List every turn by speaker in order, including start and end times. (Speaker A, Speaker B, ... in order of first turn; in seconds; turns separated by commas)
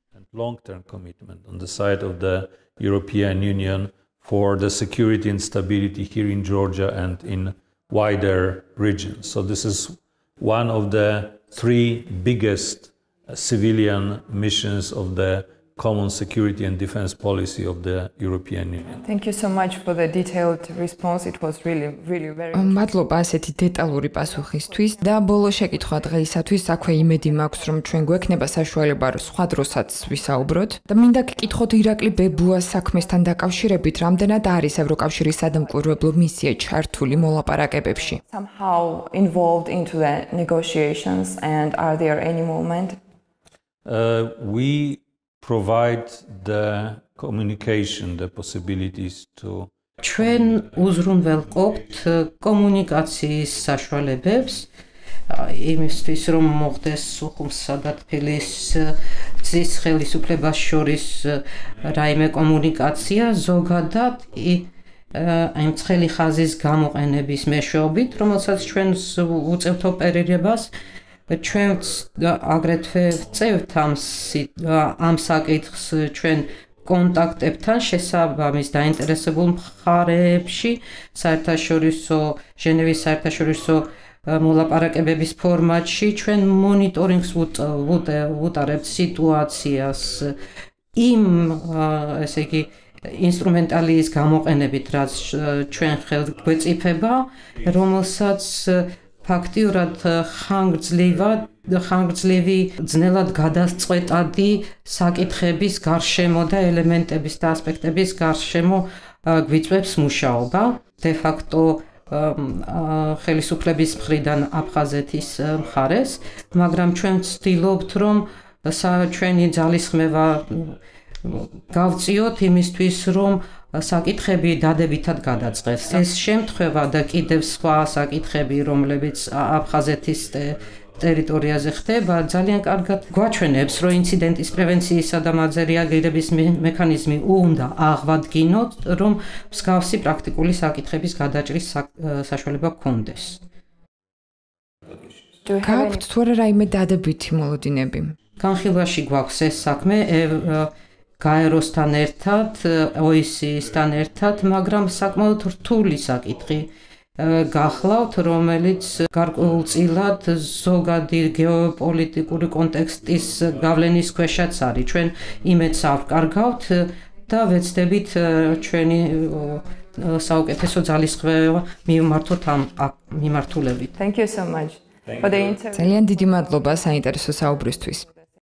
Speaker A: 0.2-19.0, Speaker B: 19.0-22.7, Speaker C: 22.5-38.2, Speaker B: 38.3-43.0, Speaker A: 43.8-49.7, Speaker D: 50.0-54.7, Speaker D: 55.3-70.7, Speaker D: 71.3-90.3, Speaker D: 90.9-143.4, Speaker B: 145.4-146.0, Speaker C: 145.6-148.2, Speaker D: 148.4-173.9, Speaker B: 173.9-175.9, Speaker C: 175.7-178.1